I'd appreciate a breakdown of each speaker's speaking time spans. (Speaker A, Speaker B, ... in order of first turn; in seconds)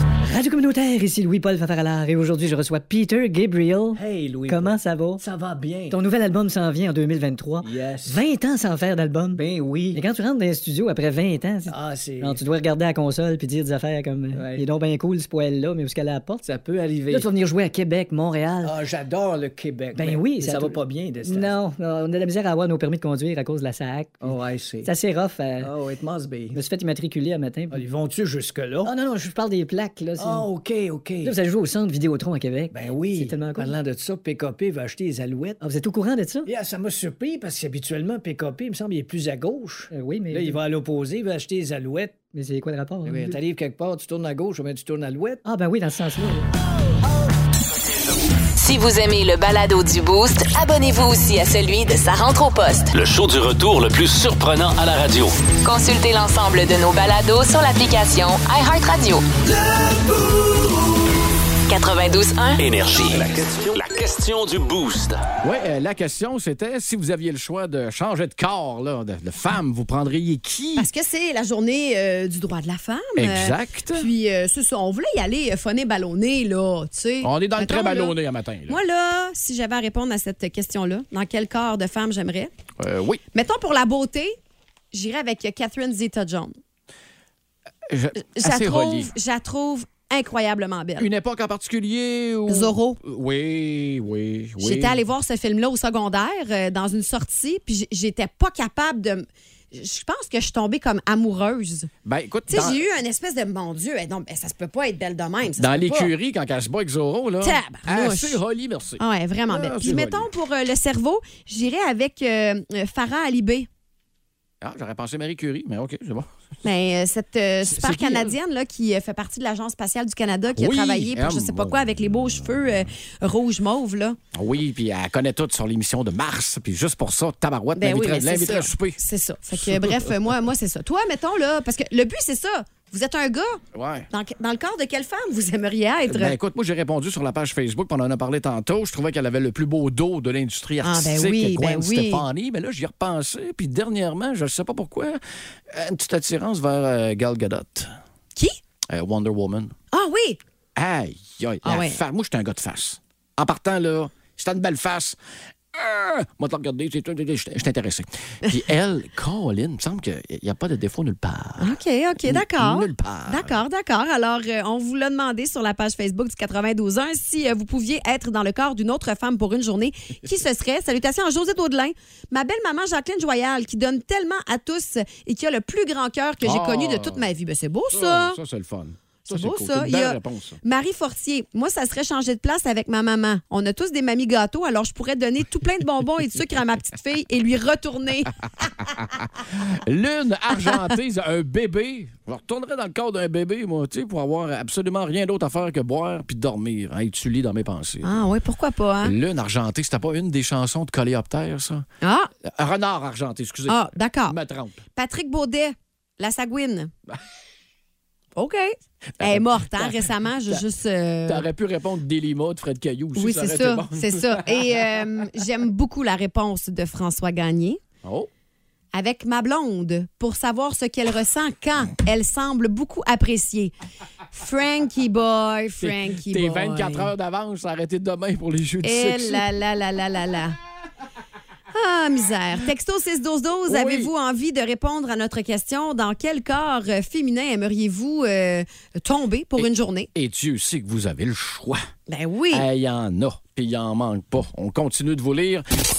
Speaker A: 0.2-5.2, 5.9-16.5, 17.1-18.8, 19.9-25.7, 26.5-27.8, 28.8-30.5, 31.2-33.8, 35.6-36.5, 39.9-40.6, 42.3-43.4, 45.5-46.5
Speaker B: 4.0-6.0, 7.6-8.2, 9.3-10.0, 11.7-12.4, 14.3-14.6, 16.4-17.3, 18.6-21.6, 24.2-24.9, 25.6-26.6, 27.7-29.0, 30.2-31.3, 32.7-35.6, 36.5-42.3, 43.1-45.4
Speaker C: 48.6-52.9, 55.6-59.2, 61.7-62.6
Speaker D: 52.9-55.4, 62.6-65.2
Speaker E: 65.4-70.9, 73.2-74.1, 77.2-78.8, 82.8-83.2, 87.9-89.1, 91.0-95.0, 102.0-102.8, 105.6-110.3, 114.6-116.3, 117.6-118.4, 120.5-121.9, 124.3-129.0, 129.6-130.1, 133.7-134.1, 136.1-147.9, 148.9-149.7, 150.8-155.2, 155.7-163.6, 176.4-177.2, 177.9-180.6, 188.8-198.2, 199.0-201.8, 202.4-204.8, 209.2-210.6, 211.3-214.4, 218.0-218.3, 225.8-229.4, 233.7-234.1, 239.6-241.8, 242.5-245.7
Speaker F: 70.8-78.2, 78.7-82.5, 83.3-84.4, 84.9-86.5, 88.4-91.1, 92.5-93.0, 94.6-101.9, 102.5-106.1, 107.4-108.4, 109.0-113.7, 116.6-124.2, 127.8-136.4, 140.8-142.2, 149.9-150.4, 151.6-152.0, 161.6-178.4, 179.3-188.7, 198.0-199.2, 202.0-202.3, 203.7-204.4, 204.9-206.9, 208.4-211.5, 213.2-217.8, 218.9-223.7, 224.3-227.1, 228.8-230.6, 231.7-240.1, 242.1-242.7